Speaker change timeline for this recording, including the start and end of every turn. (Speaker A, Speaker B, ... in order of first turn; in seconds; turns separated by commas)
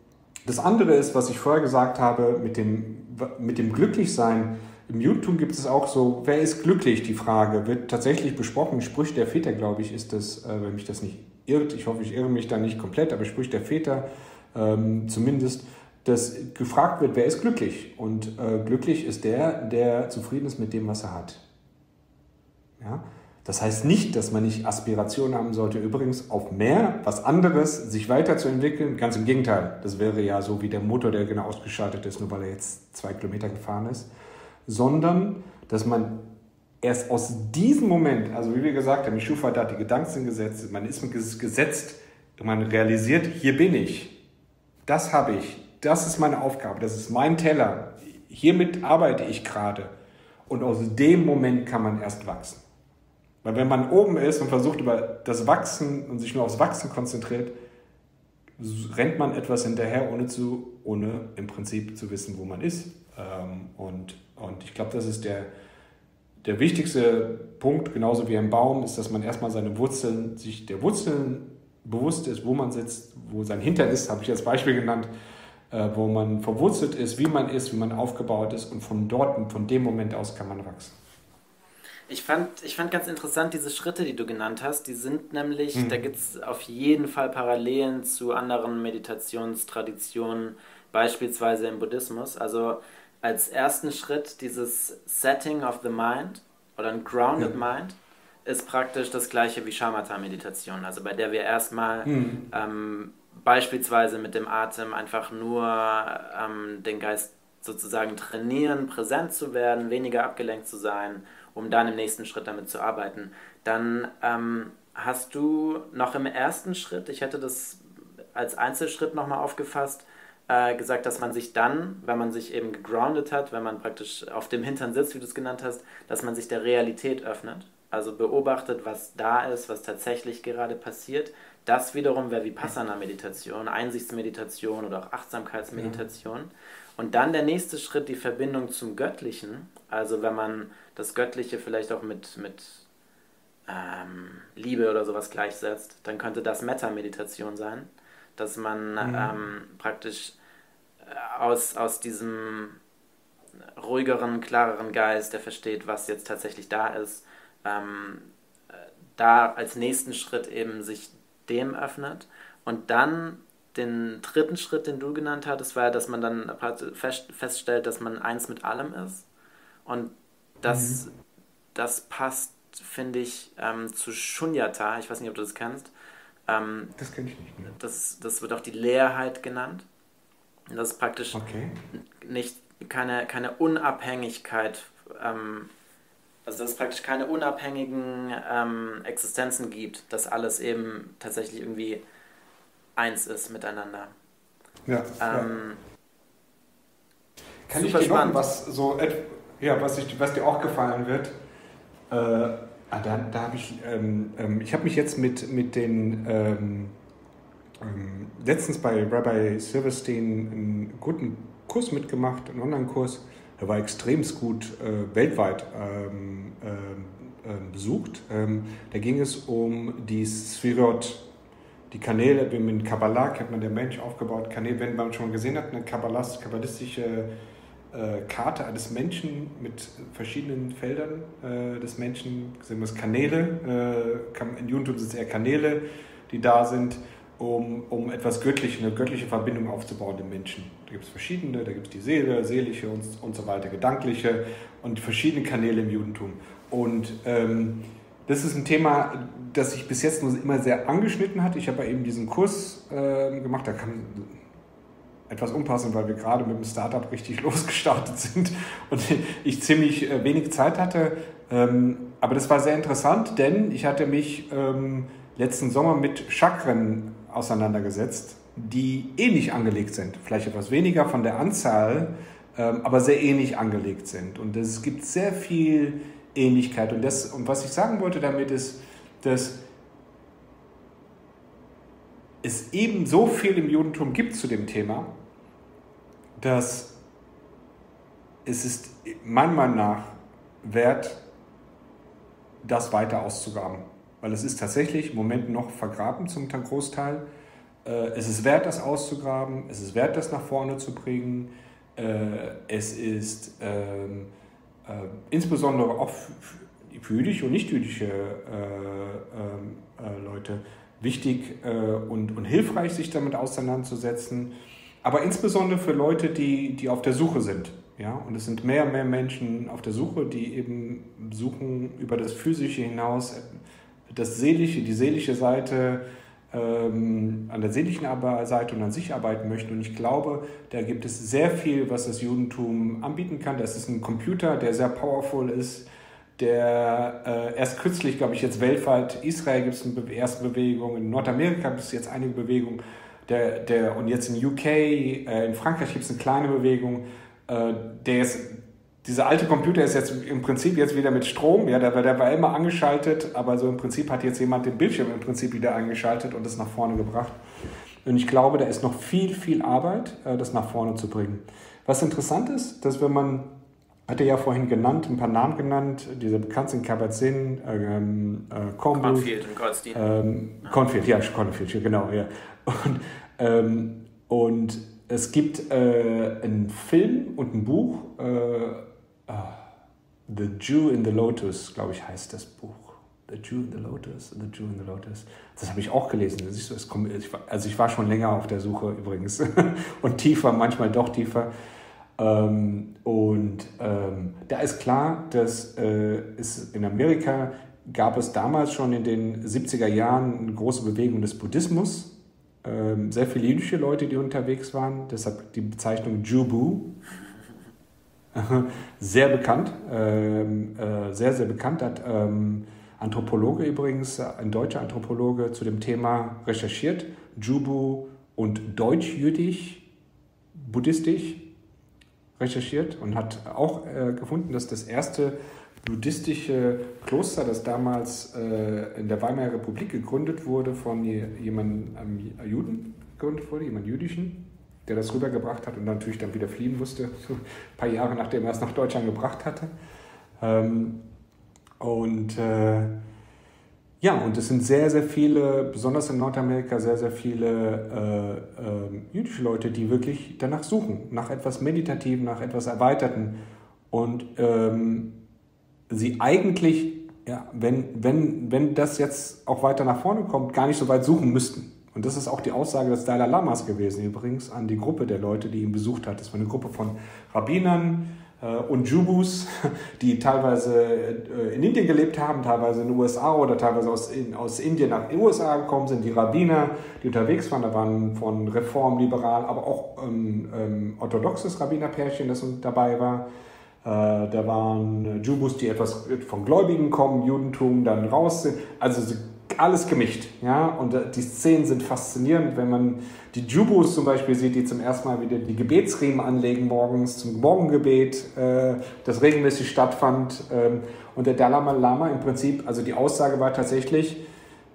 Speaker A: 0.4-21.4, Speaker A: 22.8-34.1, Speaker A: 34.6-44.2, Speaker A: 44.9-49.9, Speaker A: 50.5-52.6, Speaker A: 53.4-57.5, Speaker A: 58.6-65.5, Speaker A: 66.4-75.1, Speaker A: 75.7-81.0, Speaker B: 82.1-117.8, Speaker A: 85.7-86.0, Speaker A: 102.0-102.4, Speaker B: 118.3-142.8, Speaker A: 135.7-136.0, Speaker B: 143.7-150.3, Speaker A: 149.0-149.3, Speaker B: 151.0-152.8, Speaker B: 153.8-169.2, Speaker B: 169.8-171.1, Speaker A: 170.6-171.0, Speaker B: 171.7-175.9, Speaker B: 176.5-176.9, Speaker A: 176.9-177.8, Speaker B: 177.7-179.8, Speaker B: 180.7-181.4, Speaker A: 181.3-181.8, Speaker B: 181.9-185.7, Speaker B: 186.4-192.0, Speaker B: 192.9-194.1, Speaker A: 194.8-195.5, Speaker B: 195.2-195.8, Speaker A: 197.7-201.3, Speaker B: 197.7-198.4, Speaker A: 202.1-206.9, Speaker A: 207.8-221.2, Speaker A: 221.9-227.3, Speaker A: 227.9-254.4, Speaker A: 255.3-279.6, Speaker A: 282.4-285.1, Speaker A: 286.4-287.0, Speaker A: 288.4-291.2, Speaker A: 292.6-297.2, Speaker A: 297.8-304.3, Speaker A: 304.8-323.5, Speaker A: 324.1-357.4, Speaker A: 358.0-369.4, Speaker B: 368.9-370.0, Speaker A: 369.9-379.6, Speaker A: 380.3-391.5, Speaker A: 392.2-406.9, Speaker A: 408.3-419.9, Speaker A: 420.5-421.5, Speaker A: 422.4-439.7, Speaker A: 440.4-441.1, Speaker A: 441.8-443.0, Speaker A: 444.0-455.2, Speaker A: 455.9-483.3, Speaker A: 483.8-504.2